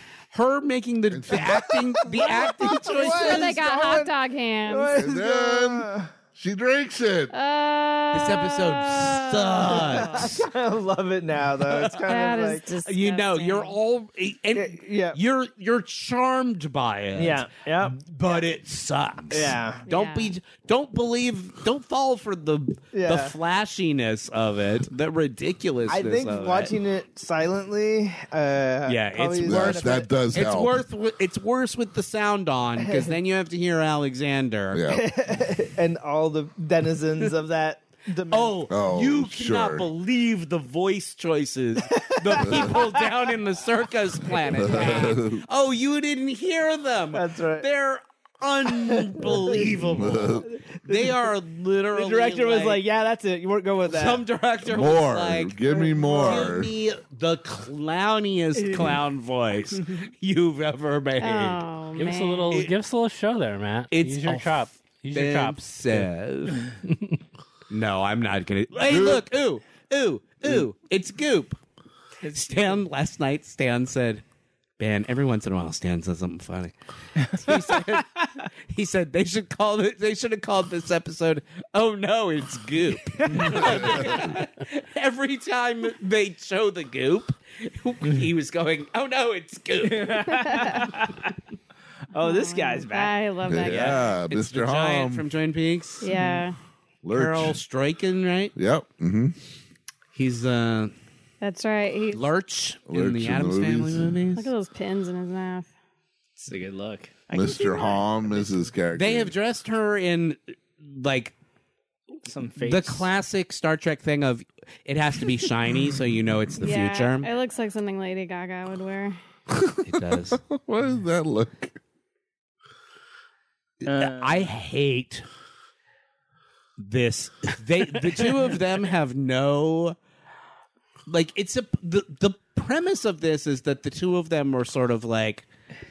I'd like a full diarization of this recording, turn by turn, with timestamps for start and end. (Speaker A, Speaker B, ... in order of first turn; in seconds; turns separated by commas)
Speaker A: 0.3-3.6, Speaker B: 1.1-1.8, Speaker C: 1.4-4.1, Speaker D: 2.9-5.0, Speaker C: 4.7-6.1, Speaker B: 4.9-7.3, Speaker D: 7.3-10.4, Speaker A: 8.1-10.4, Speaker C: 9.7-12.7, Speaker A: 11.7-12.1, Speaker D: 12.0-13.8, Speaker A: 12.8-26.8, Speaker C: 14.6-15.2, Speaker C: 17.1-18.4, Speaker C: 19.3-19.9, Speaker D: 19.9-20.4, Speaker C: 22.9-23.3, Speaker C: 25.9-30.1, Speaker A: 28.8-34.8, Speaker B: 29.4-30.8, Speaker C: 32.8-33.1, Speaker B: 34.7-35.1, Speaker C: 34.9-38.6, Speaker A: 38.3-52.8, Speaker B: 38.7-39.9, Speaker C: 41.9-43.2, Speaker B: 42.4-42.7, Speaker B: 44.5-45.5, Speaker C: 44.6-45.1, Speaker C: 47.1-47.7, Speaker C: 48.7-49.7, Speaker B: 49.7-50.5, Speaker C: 50.4-51.3, Speaker C: 51.9-54.2, Speaker A: 53.9-61.6, Speaker B: 54.6-56.7, Speaker C: 55.7-56.6, Speaker C: 58.5-59.0, Speaker D: 61.2-62.6, Speaker E: 62.0-66.1, Speaker A: 63.9-66.7, Speaker A: 67.7-71.6, Speaker B: 68.8-69.2, Speaker A: 72.2-74.2, Speaker A: 74.8-90.5, Speaker C: 77.5-77.7, Speaker C: 83.2-84.0, Speaker B: 83.3-84.3, Speaker C: 89.8-91.3, Speaker D: 90.4-90.9, Speaker C: 92.1-93.2, Speaker D: 92.2-94.1, Speaker B: 93.5-95.2, Speaker A: 93.6-96.1, Speaker D: 96.0-96.5, Speaker C: 96.0-96.4, Speaker B: 97.0-97.6, Speaker A: 97.1-98.5, Speaker B: 98.5-99.3, Speaker A: 100.1-100.9, Speaker D: 101.4-102.2, Speaker A: 102.1-104.5, Speaker B: 102.9-104.2, Speaker D: 104.3-105.7, Speaker C: 106.4-108.5, Speaker B: 107.3-109.3, Speaker A: 108.9-111.3, Speaker C: 112.2-113.1, Speaker A: 112.6-117.3, Speaker D: 116.6-119.2, Speaker B: 119.5-121.8, Speaker A: 119.8-120.4, Speaker A: 123.8-125.3, Speaker C: 123.8-124.4, Speaker A: 126.8-130.0, Speaker A: 131.1-135.5